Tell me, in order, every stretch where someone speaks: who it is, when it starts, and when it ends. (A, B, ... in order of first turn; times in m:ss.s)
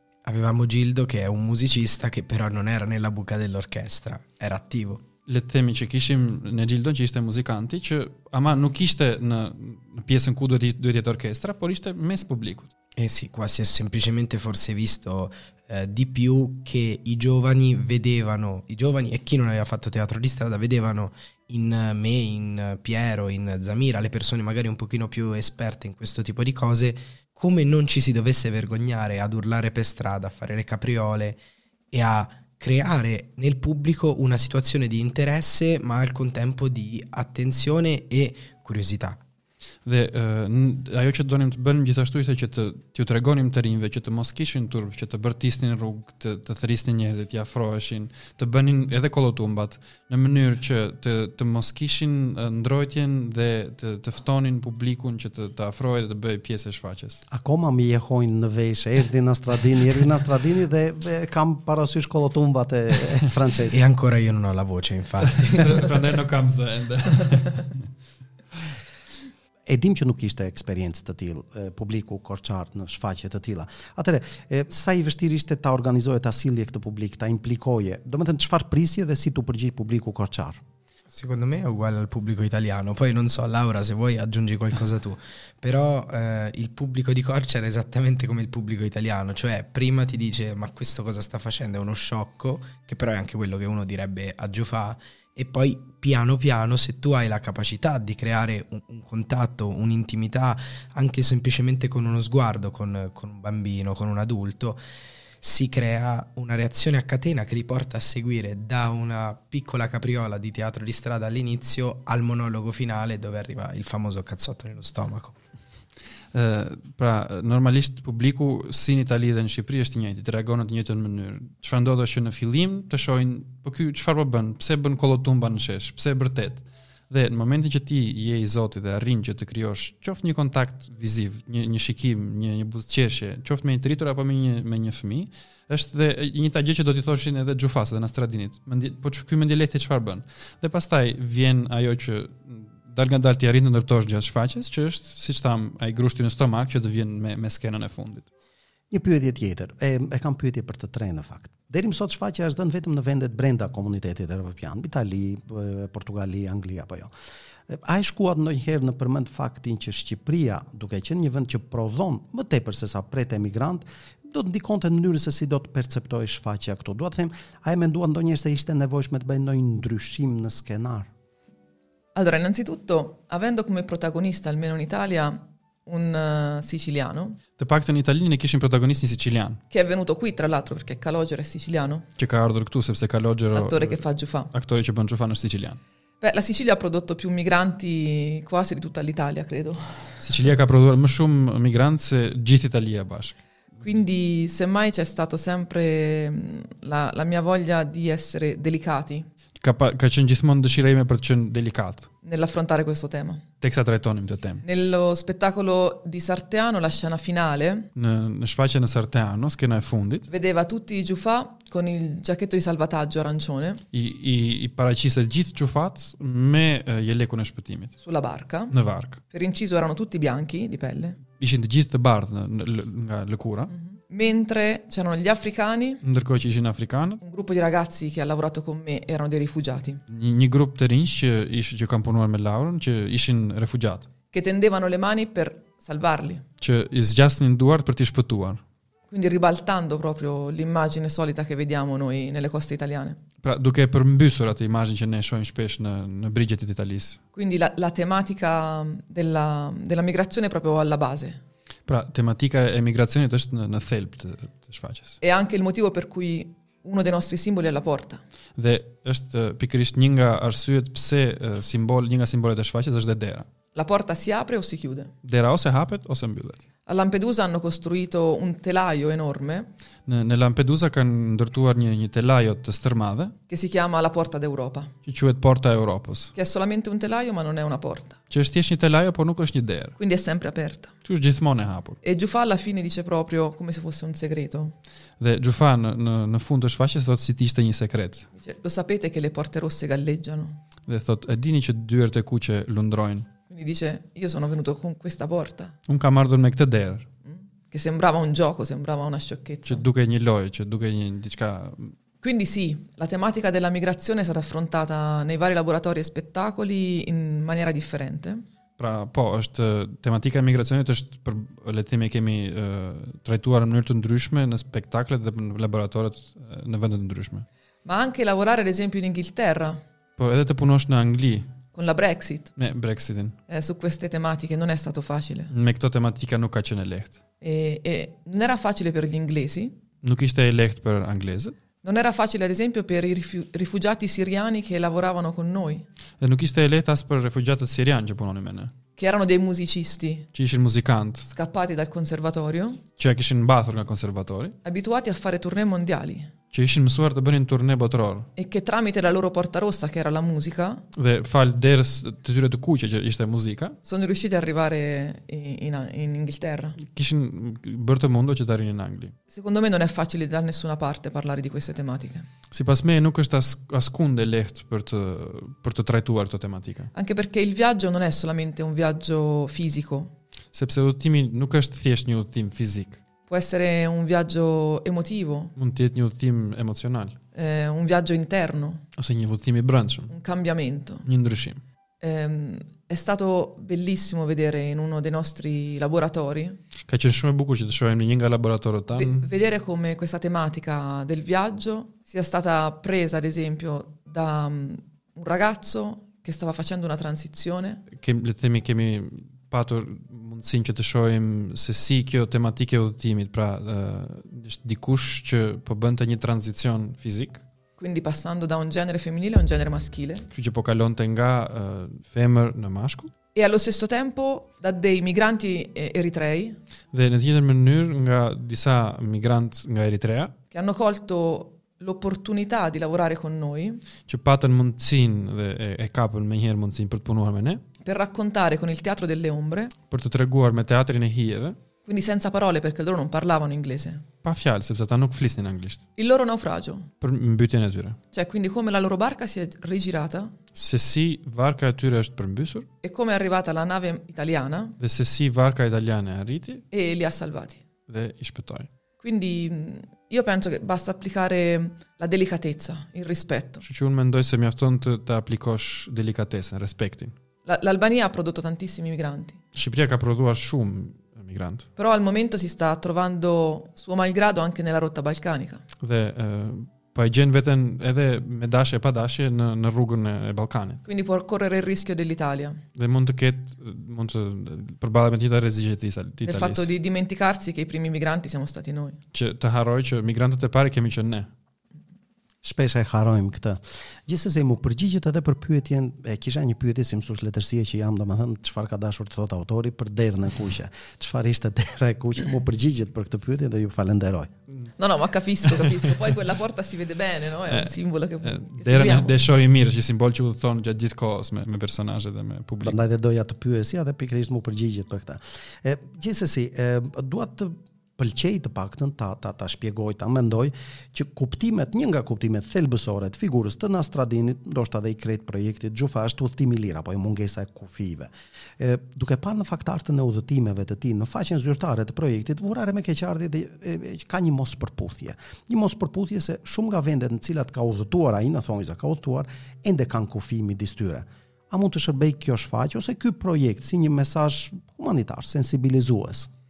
0:00.2-0:05.0 A
0:05.3-0:12.7 B
0:13.0-0:31.4 A
0:31.9-0:39.2 A
0:39.8-0:57.2 B
0:57.3-1:03.8 C
1:03.7-1:05.9 A
1:05.4-1:07.8 B
1:09.7-1:20.6 C
1:21.1-1:44.8 A
1:45.4-1:55.4 A
1:56.3-2:28.3 B
2:28.9-2:37.1 C
2:37.7-2:51.1 C
2:52.2-2:57.4 D
2:57.6-2:59.6 B
2:59.7-3:02.1 D
3:02.2-3:05.8 B
3:03.5-3:04.5 D
3:06.2-3:10.2 D
3:10.2-3:13.4 B
3:13.8-3:19.3 D
3:19.6-3:22.1 B
3:22.2-3:23.4 D
3:23.6-3:24.6 B
3:24.6-3:27.9 D
3:28.0-3:30.3 B
3:30.3-3:33.8 D
3:33.9-3:38.0 B
3:38.0-3:38.7 D
3:38.7-3:39.2 B
3:39.3-3:41.2 D
3:41.4-3:43.7 B
3:43.7-3:46.0 D
3:46.0-3:47.2 B
3:47.2-3:50.0 D
3:50.1-3:54.1 B
3:54.3-3:56.4 D
3:56.6-3:58.6 B
3:59.1-4:03.2 D
4:03.4-4:07.2 B
4:07.4-4:11.4 D
4:11.9-4:15.2 B
4:15.2-4:18.2 D
4:18.6-4:23.5 B
4:23.7-4:25.1 D
4:25.2-4:26.6 B
4:26.9-4:29.7 D
4:30.1-4:33.4 B
4:33.5-4:34.9 D
4:35.1-4:36.3 B
4:36.4-4:38.2 D
4:38.3-4:40.0 B
4:40.0-4:40.9 D
4:41.0-4:42.0 B
4:42.0-4:44.7 D
4:45.2-4:48.3 B
4:48.4-4:50.6 D
4:50.9-4:53.3 B
4:53.5-4:55.8 D
4:55.9-4:57.1 B
4:57.3-4:59.8 D
4:59.7-5:01.9 B
5:02.2-5:08.4 D
5:08.8-5:17.5 B
5:17.8-5:19.8 D
5:20.2-5:21.5 B
5:21.7-5:22.5 D
5:22.6-5:23.4 B
5:23.5-5:25.5 D
5:25.5-5:27.2 B
5:27.4-5:29.8 D
5:30.0-5:31.6 B
5:31.8-5:35.9 D
5:36.2-5:38.7 B
5:39.0-5:40.3 D
5:40.3-5:41.3 B
5:41.2-5:42.8 D
5:43.0-5:44.6 B
5:44.6-5:46.3 D
5:46.5-5:48.3 B
5:48.4-5:50.8 D
5:50.9-5:53.8 B
5:53.8-5:56.8 D
5:56.8-5:59.2 B
5:59.3-6:02.3 D
6:02.5-6:06.9 B
6:06.9-6:10.1 D
6:10.5-6:13.0 B
6:13.3-6:15.5 D
6:15.6-6:17.2 B
6:17.4-6:18.8 D
6:19.0-6:20.1 B
6:20.1-6:21.1 D
6:21.0-6:21.6 B
6:22.0-6:26.6 D
6:26.9-6:29.3 B
6:28.9-6:37.8 D
6:37.9-6:47.4 B
6:47.8-6:50.3 D
6:50.3-6:53.1 B
6:53.4-6:56.6 D
6:56.9-7:00.3 B
7:00.5-7:03.8 D
7:04.1-7:07.6 B
7:07.8-7:09.7 D
7:09.9-7:11.6 B
7:11.9-7:14.0 D
7:14.2-7:15.8 B
7:16.0-7:16.9 D
7:17.0-7:18.0 B
7:18.1-7:20.3 D
7:20.6-7:22.7 B
7:22.8-7:24.8 D
7:24.8-7:26.6 B
7:26.7-7:27.6 D
7:27.9-7:28.7 B
7:29.0-7:33.6 D
7:33.6-7:37.2 B
7:37.5-7:39.4 D
7:39.5-7:41.7 B
7:41.8-7:45.6 D
7:45.8-7:50.8 B
7:50.8-7:52.6 D
7:52.8-7:56.7 B
7:56.2-7:59.0 D
7:59.1-8:01.3 B
8:02.4-8:14.3 C
8:14.8-8:19.2 D
8:17.5-8:22.8 B
8:22.6-8:56.3 C